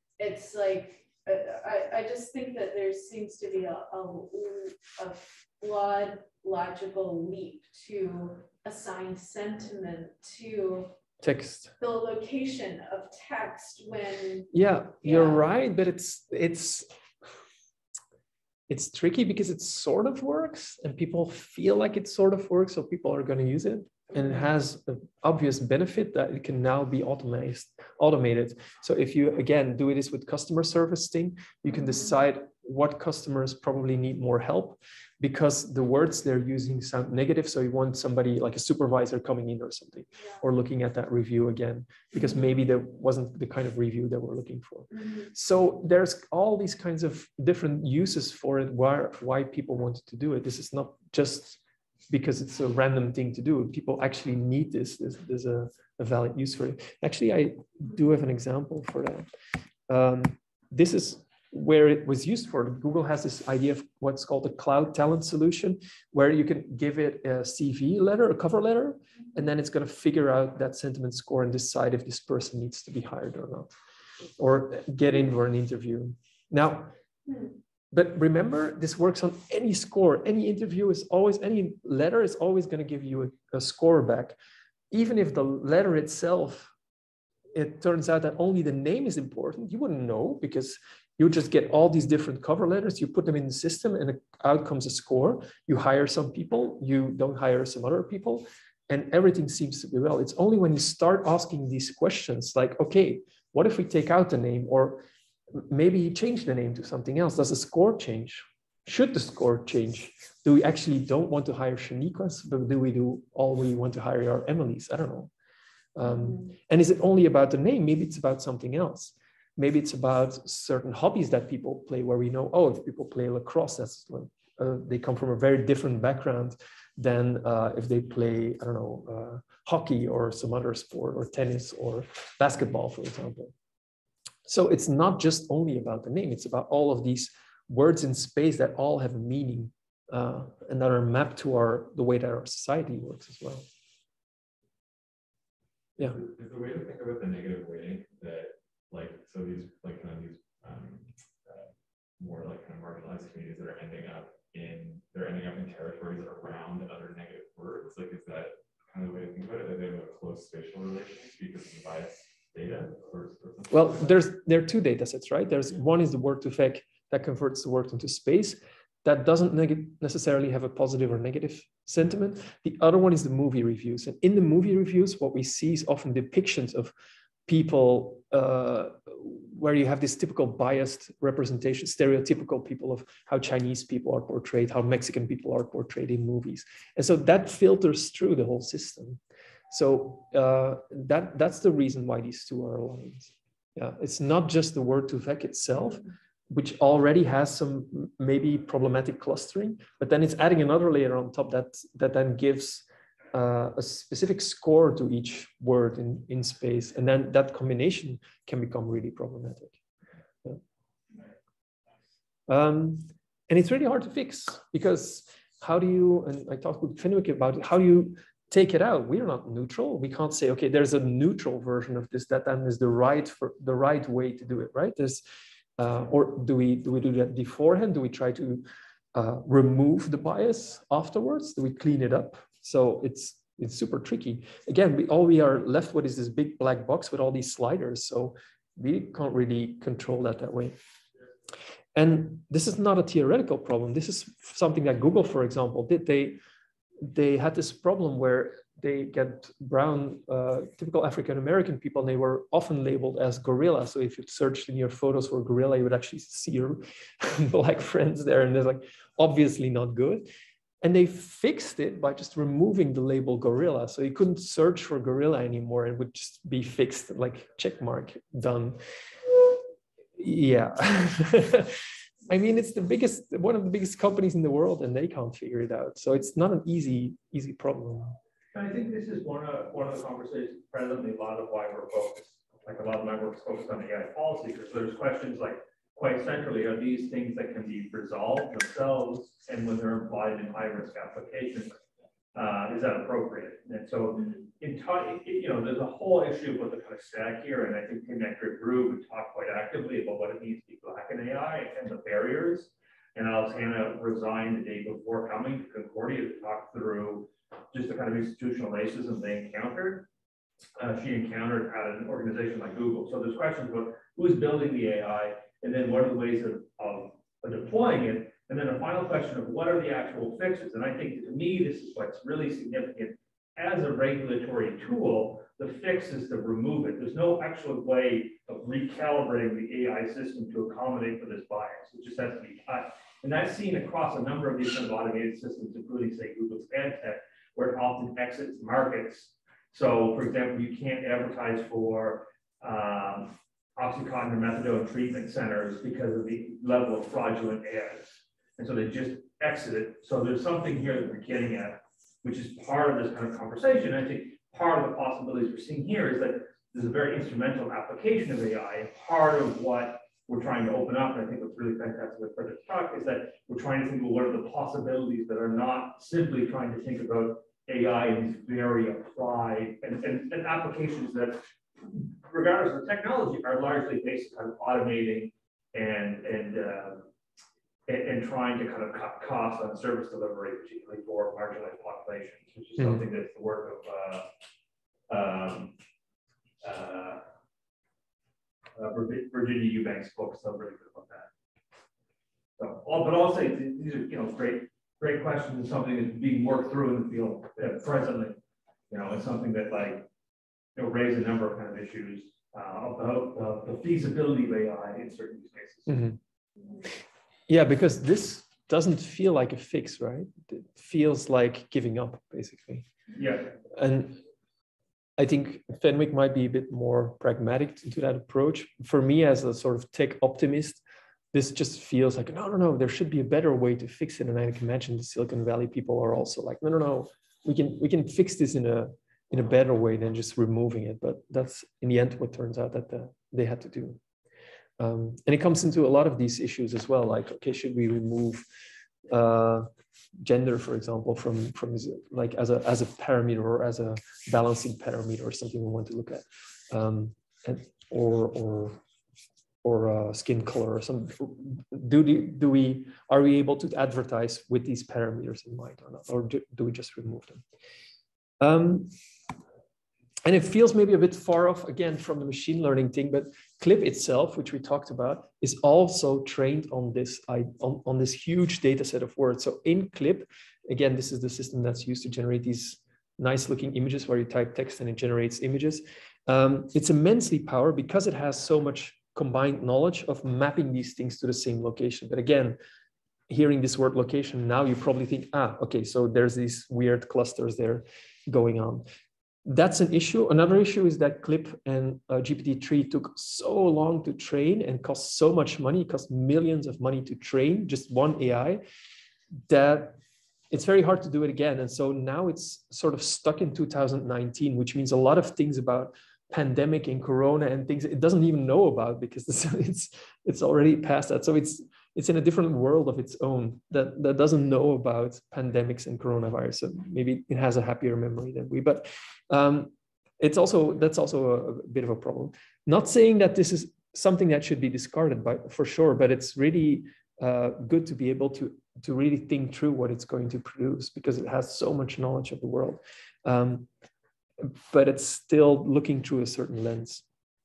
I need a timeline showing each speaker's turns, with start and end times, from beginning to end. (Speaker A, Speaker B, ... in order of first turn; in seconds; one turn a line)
Speaker A: 0.2-10.9
Speaker B: 11.2-11.7
Speaker A: 11.8-14.5
Speaker B: 14.5-16.9
Speaker A: 15.0-15.4
Speaker B: 18.7-59.3
Speaker A: 24.1-24.4
Speaker A: 44.9-45.3
Speaker B: 59.9-73.7
Speaker B: 74.4-76.9
Speaker A: 77.3-77.5
Speaker B: 77.9-84.3
Speaker B: 84.9-86.7
Speaker B: 87.5-115.3
Speaker B: 115.9-133.5
Speaker A: 116.0-116.4
Speaker B: 134.4-143.7
Speaker C: 146.0-151.7
Speaker C: 152.2-164.1
Speaker B: 163.7-176.9
Speaker B: 177.5-209.8
Speaker B: 212.5-225.2
Speaker B: 225.8-228.6
Speaker B: 229.1-240.7
Speaker B: 241.9-246.4
Speaker B: 247.0-260.3
Speaker B: 260.8-268.8
Speaker B: 270.2-278.1
Speaker D: 278.5-291.7
Speaker D: 292.3-310.1
Speaker D: 310.8-371.4
Speaker D: 372.2-377.1
Speaker D: 377.9-384.3
Speaker B: 382.8-383.0
Speaker D: 385.1-385.7
Speaker D: 386.6-387.2
Speaker D: 388.8-391.3
Speaker D: 392.6-398.4
Speaker D: 398.9-400.1
Speaker D: 400.7-406.1
Speaker B: 405.9-406.2
Speaker B: 407.5-412.9
Speaker D: 413.1-413.5
Speaker B: 413.7-414.2
Speaker B: 415.2-420.8
Speaker B: 421.3-434.0
Speaker B: 434.8-438.4
Speaker B: 439.1-439.7
Speaker B: 440.2-448.8
Speaker B: 449.6-457.4
Speaker B: 458.4-458.9
Speaker B: 460.2-482.6
Speaker B: 483.3-488.8
Speaker B: 489.4-498.6
Speaker B: 499.5-500.0
Speaker B: 500.5-533.7
Speaker B: 534.4-537.0